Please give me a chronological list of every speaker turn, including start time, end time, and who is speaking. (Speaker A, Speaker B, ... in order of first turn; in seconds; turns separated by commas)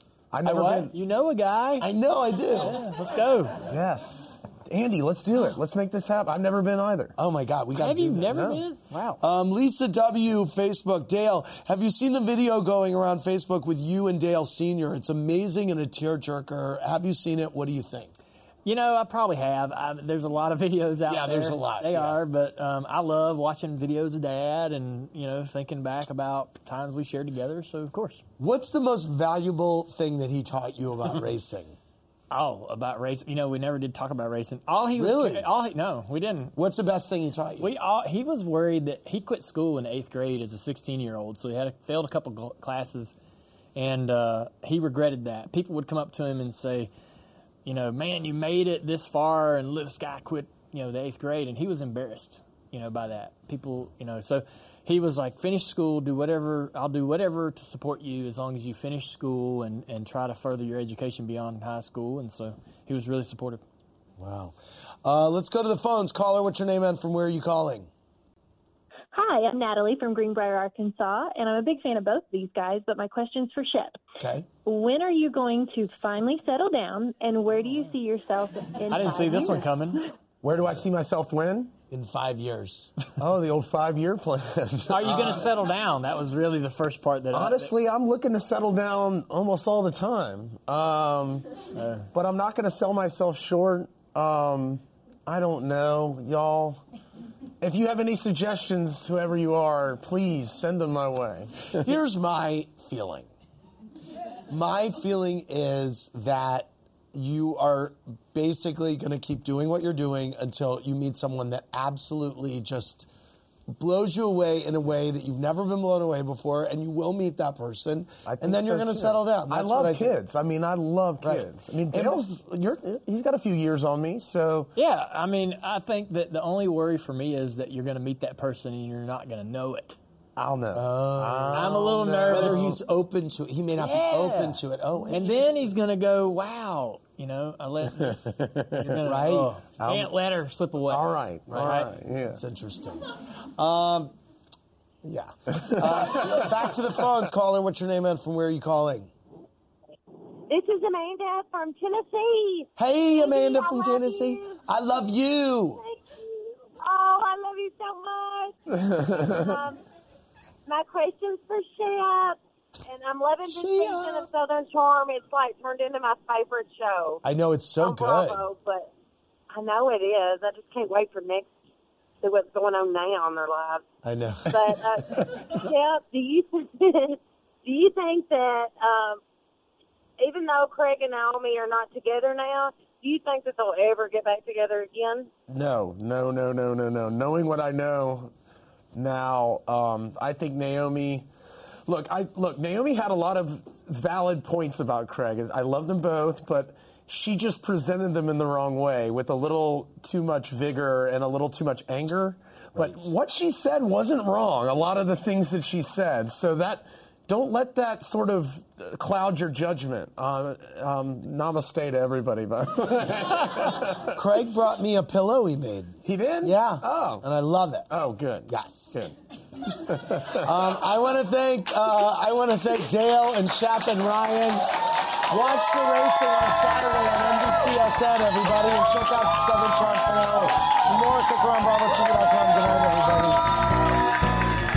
Speaker A: 0.3-0.9, Speaker B: 0.5-0.9, Speaker C: 0.9-1.9, Speaker B: 1.8-2.8, Speaker C: 2.6-3.6, Speaker A: 3.7-7.2, Speaker B: 7.2-8.6, Speaker C: 7.8-9.2, Speaker A: 8.3-8.6, Speaker B: 9.2-18.1, Speaker C: 18.6-28.2, Speaker B: 21.1-22.2, Speaker B: 28.4-31.8, Speaker C: 32.3-36.5, Speaker B: 35.0-35.5, Speaker B: 36.6-37.7, Speaker C: 37.6-43.1, Speaker C: 43.8-46.9, Speaker C: 47.6-63.6, Speaker B: 64.2-67.9, Speaker D: 69.1-74.0, Speaker B: 74.2-74.5, Speaker D: 74.7-79.7, Speaker C: 78.9-80.1, Speaker A: 80.4-81.7, Speaker B: 81.9-82.9, Speaker A: 83.2-85.5, Speaker C: 84.9-87.7, Speaker A: 87.3-91.5, Speaker C: 91.8-92.1, Speaker A: 92.1-96.8, Speaker A: 97.6-101.8, Speaker B: 101.8-103.3, Speaker B: 104.5-113.1, Speaker B: 113.7-120.2, Speaker A: 118.3-124.7, Speaker B: 121.2-122.2, Speaker C: 124.8-130.0, Speaker A: 130.4-132.8, Speaker B: 130.7-135.5, Speaker C: 131.5-132.8, Speaker C: 133.8-141.9, Speaker A: 138.1-138.8, Speaker B: 139.0-139.5, Speaker A: 139.8-140.1, Speaker A: 140.9-142.4, Speaker B: 142.3-144.1, Speaker B: 145.0-149.1, Speaker A: 145.6-146.5, Speaker E: 150.5-154.6, Speaker B: 152.8-155.8, Speaker E: 155.8-159.8, Speaker A: 158.9-159.3, Speaker E: 160.7-167.2, Speaker B: 163.4-164.3, Speaker B: 167.2-168.4, Speaker E: 167.8-168.9, Speaker E: 169.5-171.5, Speaker E: 172.2-173.8, Speaker B: 174.0-174.8, Speaker E: 174.5-179.2, Speaker E: 180.2-185.3, Speaker A: 185.5-188.3, Speaker A: 188.9-191.3, Speaker A: 191.9-214.2, Speaker B: 202.8-203.0, Speaker B: 214.1-217.9, Speaker A: 216.1-217.2, Speaker A: 217.9-220.5, Speaker B: 218.5-219.0, Speaker B: 220.4-224.8, Speaker B: 225.3-233.5